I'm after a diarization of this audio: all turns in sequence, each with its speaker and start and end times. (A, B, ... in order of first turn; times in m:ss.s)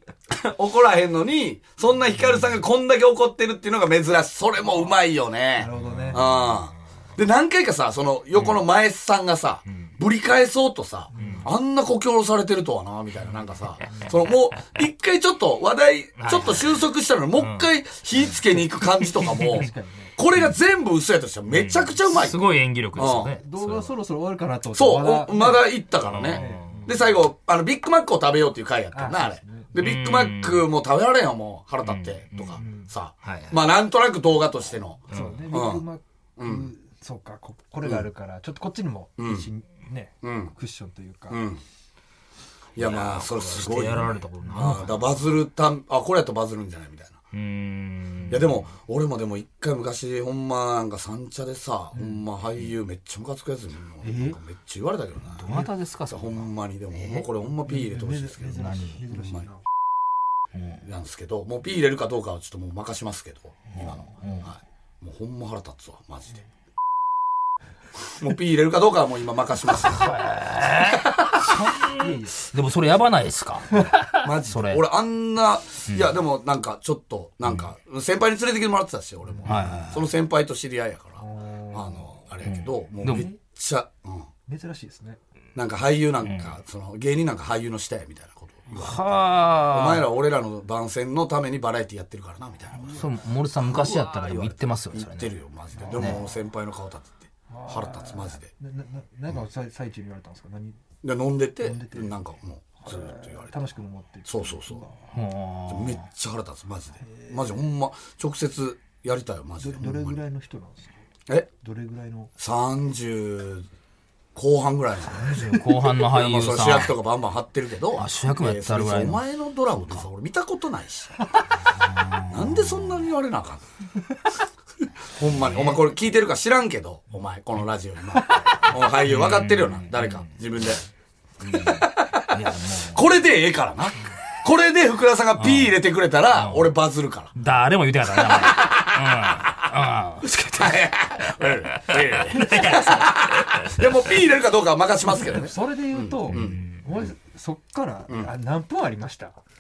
0:00.3-0:23.4 A
0:05.6-0:06.2 B
0:05.6-0:06.6 C
0:08.4-0:08.6 C
0:11.1-0:11.5 B
0:11.2-0:11.4 C
0:16.2-0:16.8 C
0:17.4-0:18.2 C
0:18.5-0:20.1 B
0:21.5-0:24.0 C
0:23.0-0:25.7 B
0:24.7-0:35.8 A
0:26.0-0:26.9 C
0:26.3-0:27.0 B
0:28.9-0:29.7 B
0:29.8-0:30.7 C
0:31.8-0:32.6 C
0:32.6-0:32.9 B
0:33.2-0:33.6 C
0:35.1-0:35.4 C
0:35.1-0:41.4 B
0:36.4-0:36.7 A
0:39.2-0:39.5 A
0:40.2-0:40.5 A
0:41.3-0:41.6 A
0:42.8-0:47.2 A
0:42.8-0:45.0 C
0:44.4-0:44.8 B
0:47.3-0:48.7 C
0:48.3-0:55.5 A
0:54.0-0:54.4 B
0:55.4-0:56.5 C
0:56.1-0:58.6 A
0:57.0-0:57.2 C
0:57.7-0:59.6 B
0:58.4-0:59.0 C
0:59.1-0:59.5 A
1:00.5-1:00.8 C
1:00.8-1:06.4 A
1:03.7-1:04.5 C
1:08.0-1:10.2 A
1:09.8-1:14.8 C
1:11.4-1:12.4 B
1:14.2-1:24.3 A
1:15.9-1:16.2 C
1:19.3-1:19.8 B
1:19.4-1:20.1 C
1:21.2-1:22.3 B
1:22.4-1:23.3 C
1:23.0-1:23.4 B
1:24.5-1:25.2 B
1:25.6-1:29.1 A
1:26.2-1:26.5 C
1:28.7-1:30.1 C
1:29.7-1:38.5 A
1:32.8-1:33.1 B
1:32.8-1:35.3 C
1:35.8-1:36.2 B
1:36.0-1:36.2 C
1:37.5-1:40.8 B
1:41.0-1:43.7 A
1:41.6-1:42.2 B
1:42.8-1:45.0 B
1:44.2-1:44.8 A
1:45.1-1:46.0 C
1:45.7-1:50.2 A
1:47.0-1:47.5 B
1:49.6-1:51.0 B
1:51.6-1:52.3 B
1:52.4-1:53.6 A
1:54.4-1:55.4 A
1:55.2-1:56.9 C
1:56.0-2:01.2 A
1:58.0-2:00.1 C
2:01.8-2:03.0 C
2:02.3-2:03.6 A
2:05.1-2:10.8 A
2:05.2-2:05.9 C
2:08.3-2:10.3 C
2:11.4-2:13.1 C
2:11.5-2:12.4 A
2:12.9-2:17.3 A
2:15.4-2:16.8 C
2:17.4-2:23.9 C
2:18.2-2:19.6 A
2:20.5-2:27.1 A
2:25.1-2:29.4 B
2:26.3-2:26.8 C